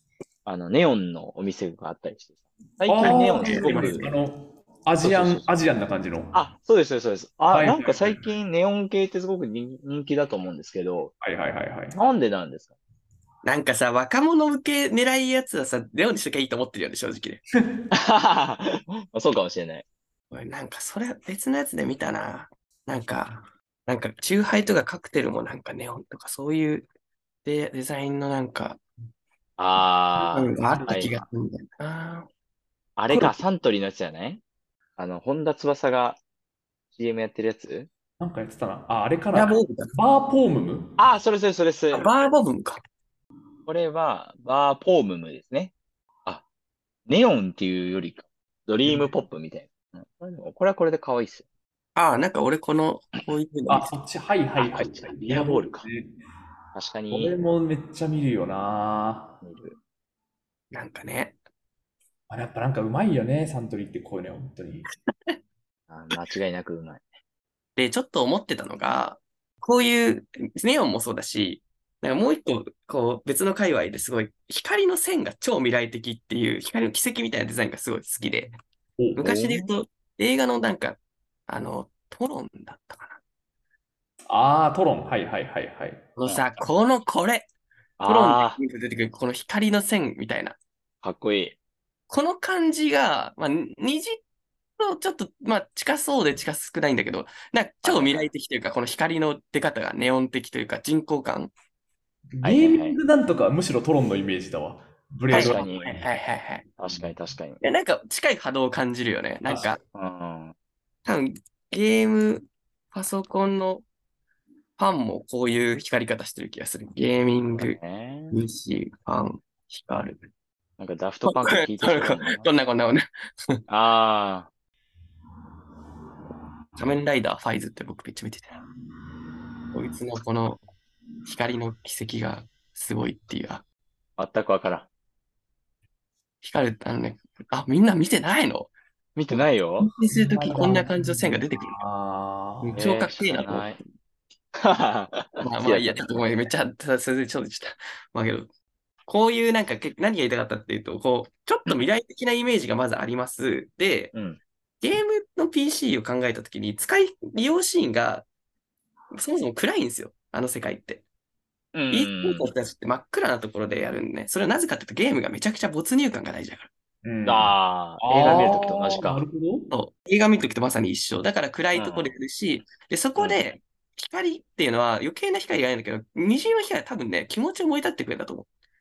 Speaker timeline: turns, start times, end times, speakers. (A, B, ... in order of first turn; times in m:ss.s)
0:00.4-0:04.1 A
0:02.8-0:06.4 B
0:03.0-0:03.9 C
0:05.0-0:05.5 A
0:06.3-0:11.1 A
0:07.5-0:08.3 B
0:11.2-0:12.0 B
0:11.9-0:12.7 A
0:13.4-0:17.4 C
0:17.9-0:19.8 A
0:20.3-0:26.9 C
0:27.4-0:28.8 C
0:29.6-0:31.2 A
0:30.2-0:31.1 B
0:30.3-0:32.3 C
0:33.0-0:34.4 A
0:35.0-0:36.2 A
0:36.9-0:37.9 A
0:38.2-0:41.0 B
0:39.3-0:39.9 C
0:41.0-0:42.1 A
0:41.9-0:42.8 C
0:43.6-0:45.7 A
0:47.1-0:51.4 A
0:52.0-0:53.9 C
0:53.7-0:56.1 B
0:54.6-0:55.8 A
0:56.7-0:57.4 A
0:57.1-0:59.4 B
0:59.4-0:59.8 A
1:00.7-1:01.4 C
1:02.3-1:04.9 B
1:05.1-1:05.4 C
1:05.9-1:07.0 A
1:07.8-1:18.5 C
1:19.0-1:19.4 B
1:19.2-1:23.2 C
1:19.2-1:19.7 A
1:24.3-1:26.0 B
1:26.2-1:27.5 C
1:28.0-1:28.6 A
1:28.0-1:30.6 C
1:31.0-1:31.6 A
1:32.1-1:34.2 C
1:34.8-1:41.5 C
1:37.8-1:38.3 A
1:42.3-1:46.2 B
1:42.4-1:43.0 A
1:45.3-1:45.9 A
1:45.3-1:46.6 C
1:46.8-1:47.6 A
1:46.9-1:47.1 B
1:47.6-1:49.8 C
1:49.4-1:49.7 B
1:49.9-1:50.5 A
1:51.0-1:53.8 C
1:54.8-1:57.8 C
1:57.6-1:58.3 A
1:58.3-2:00.2 C
2:00.8-2:02.5 A
2:01.2-2:03.0 C
2:03.7-2:04.5 A
2:06.8-2:08.6 C
2:09.7-2:10.6 C
2:11.3-2:13.6 C
2:14.2-2:14.9 A
2:16.4-2:18.7 C
2:19.2-2:19.9 A
2:19.8-2:21.8 C
2:20.1-2:22.8 B
2:22.6-2:23.7 C
2:22.7-2:23.8 A
2:24.6-2:26.2 A
2:25.4-2:28.5 C
2:29.0-2:34.1 C
2:34.1-2:34.4 A
2:34.8-2:38.3 C
2:39.1-2:41.0 C
2:41.7-2:42.5 A
2:41.9-2:46.7 C
2:47.0-2:49.7 B
2:47.2-2:49.2 A
2:48.2-2:48.6 C
2:49.7-2:58.5 C
2:51.7-2:52.1 A
2:53.2-2:53.4 A